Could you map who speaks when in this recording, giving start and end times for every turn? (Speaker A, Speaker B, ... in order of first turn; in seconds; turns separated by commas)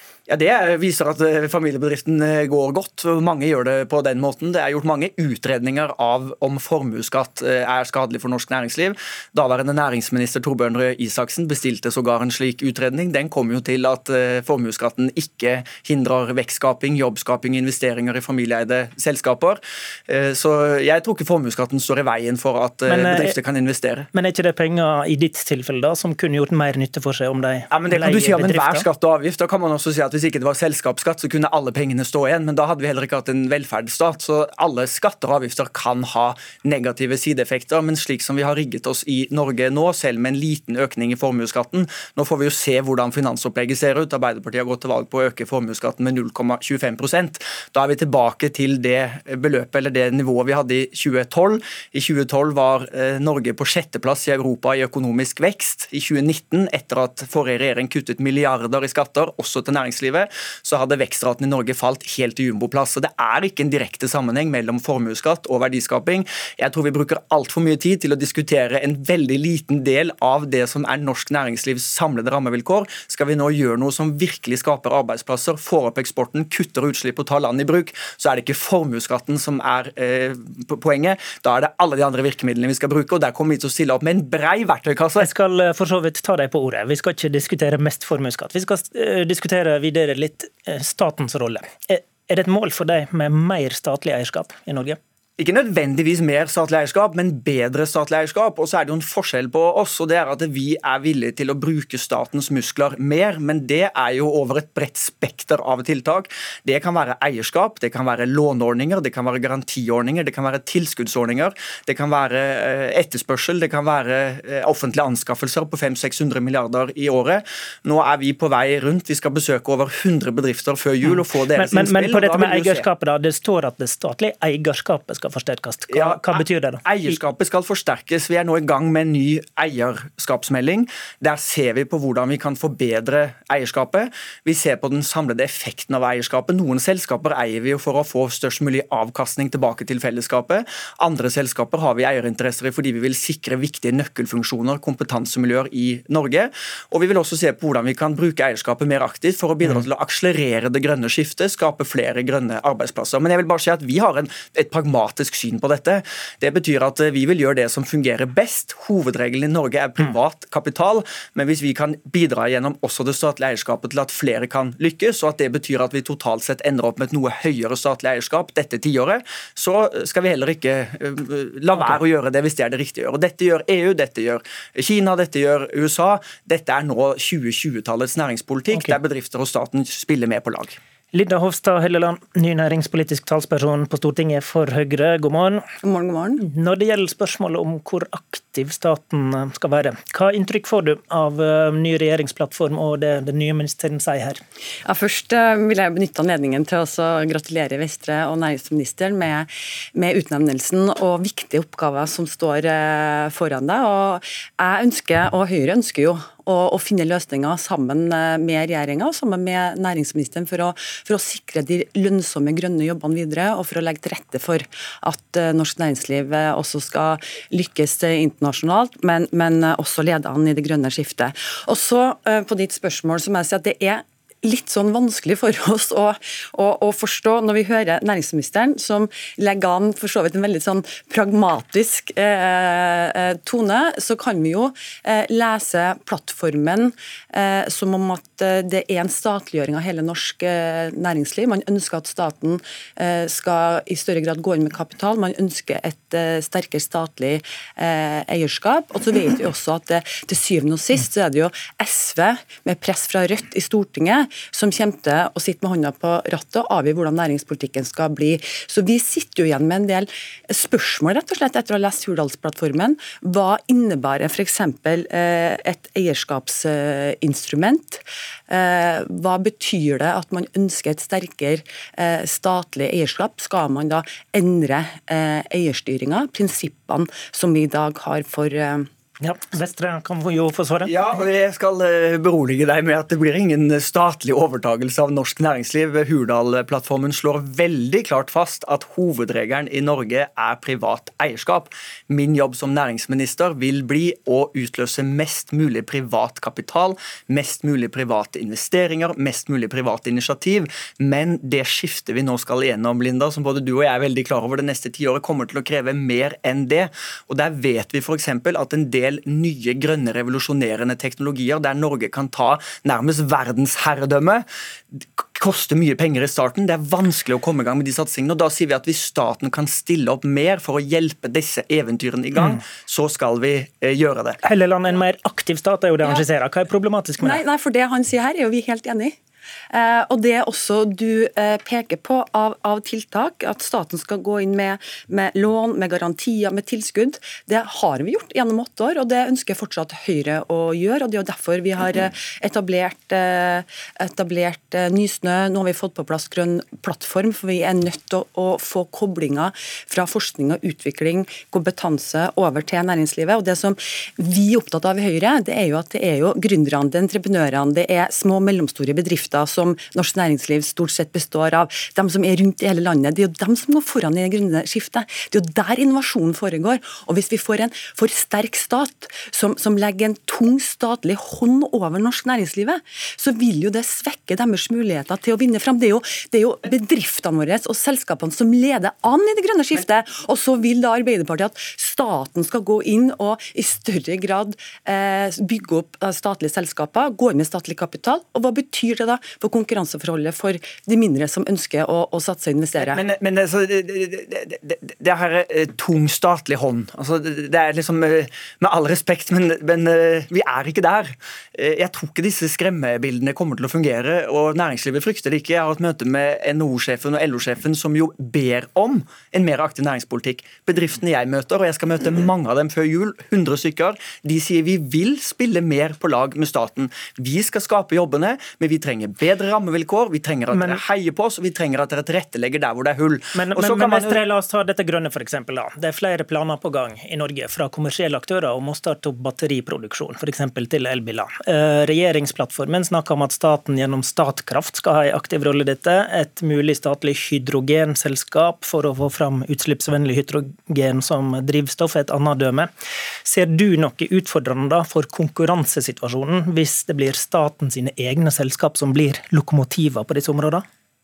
Speaker A: 0.3-24.1, Speaker B: 22.9-23.4, Speaker B: 24.1-28.9, Speaker A: 27.7-85.3, Speaker B: 85.2-95.0, Speaker A: 95.4-122.8, Speaker B: 121.0-127.2, Speaker A: 125.9-180.8, Speaker B: 181.1-185.6, Speaker C: 185.8-186.4, Speaker B: 186.4-194.4, Speaker C: 194.8-278.9, Speaker B: 279.2-280.9, Speaker A: 280.8-324.4, Speaker B: 322.4-322.6, Speaker B: 324.4-327.4, Speaker C: 327.2-329.1, Speaker C: 329.7-393.0, Speaker A: 392.8-424.2, Speaker B: 420.5-420.8, Speaker B: 423.3-442.7, Speaker B: 443.2-450.6